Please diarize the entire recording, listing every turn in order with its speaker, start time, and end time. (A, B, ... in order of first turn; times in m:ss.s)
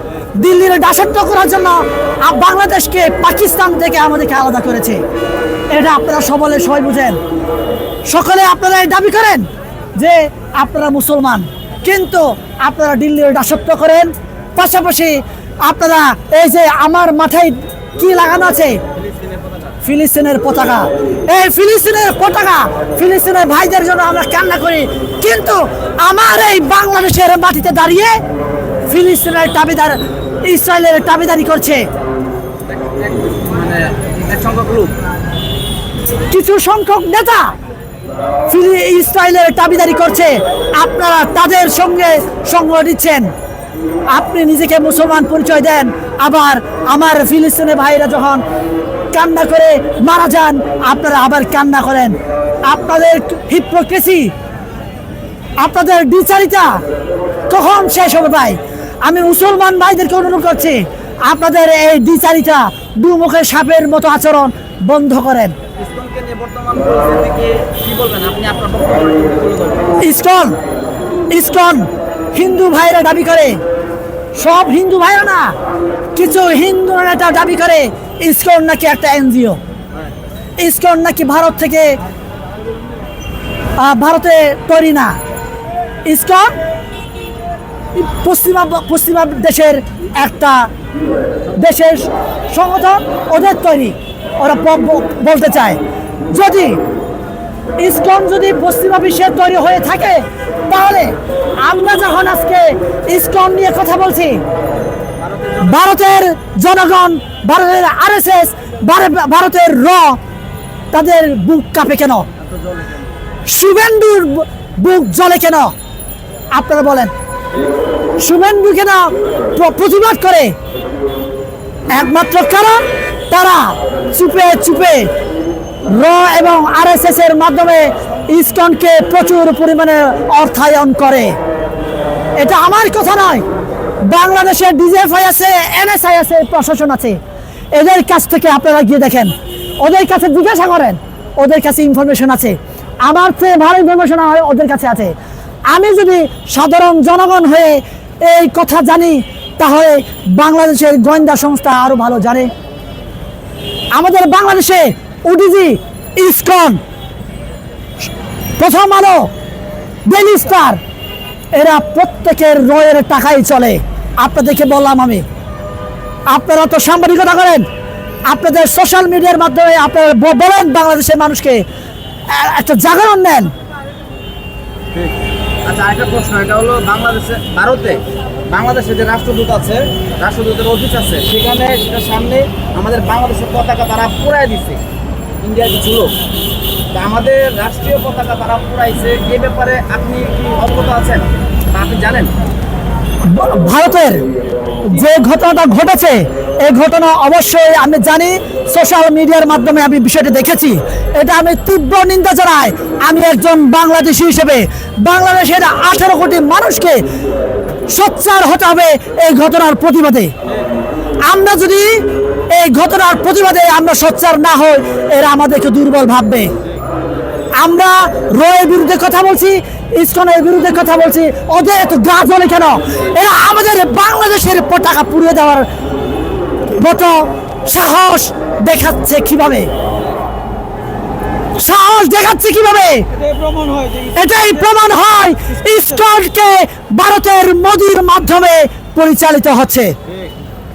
0:00.4-0:05.0 A
0:05.7-0:07.2 A
0:08.1-0:18.8 A
0:19.0-0:19.7 B
0:19.8-0:28.2 A
0:28.9-0:31.8 A
0:32.7-0:34.9 B
0:36.3-0:37.5 A
0:38.5-0:43.3 A
0:44.1-0:48.4 A
0:49.1-0:54.3 A
0:55.6-0:56.8 A
0:57.5-1:05.5 A
1:05.8-1:10.0 B
1:10.0-1:10.6 A
1:11.3-1:13.6 A
1:14.3-1:15.6 A
1:16.1-1:19.6 A
1:20.6-1:22.0 A
1:23.8-1:25.2 A
1:26.0-1:26.5 A
1:28.0-1:30.7 A
1:31.5-1:35.8 A
1:36.3-1:36.8 A
1:37.8-1:44.4 A
1:45.2-1:45.8 B
1:45.6-1:50.2 A
1:50.9-1:52.3 A
1:52.4-1:53.0 B
1:53.4-1:55.7 A
1:56.5-1:57.1 A
1:58.2-2:00.5 A
2:01.9-2:05.1 A
2:05.9-2:11.4 A
2:12.4-2:13.4 A
2:14.0-2:17.2 A
2:17.7-2:25.1 A
2:25.7-2:32.5 A
2:33.9-2:36.8 A
2:38.6-2:39.3 A
2:40.0-2:40.8 A
2:41.5-2:45.2 A
2:46.3-2:47.6 A
2:48.2-2:51.6 A
2:52.3-2:53.5 A
2:55.6-3:04.8 B
3:05.4-3:06.1 B
3:06.9-3:12.3 B
3:13.2-3:14.2 A
3:14.8-3:27.0 A
3:27.9-3:30.3 A
3:31.2-3:36.5 A
3:37.6-3:45.7 A
3:46.7-3:49.7 A
3:51.5-3:53.1 A
3:53.2-3:54.1 B
3:54.1-3:59.9 A